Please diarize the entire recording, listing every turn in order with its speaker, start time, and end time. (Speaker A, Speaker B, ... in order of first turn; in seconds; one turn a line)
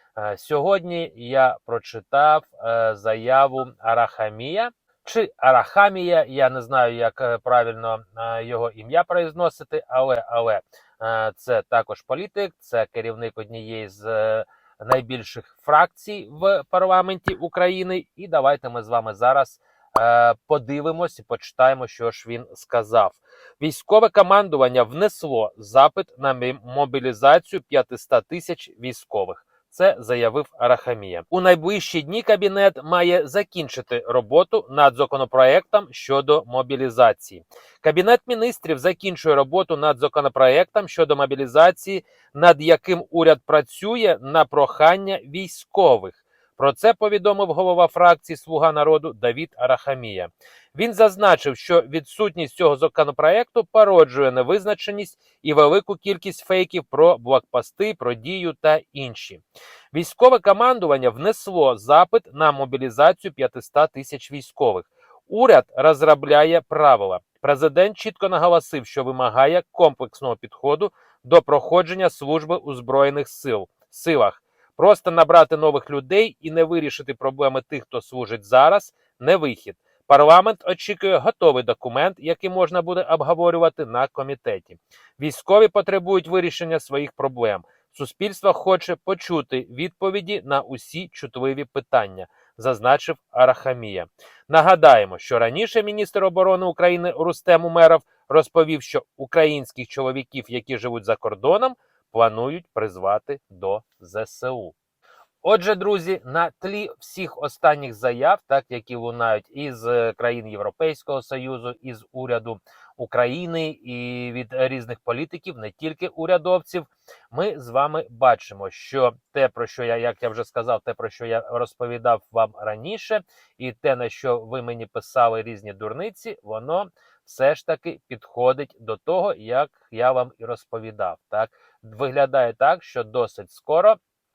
Speaker A: 0.1-104.7
Speaker A: 105.4-134.0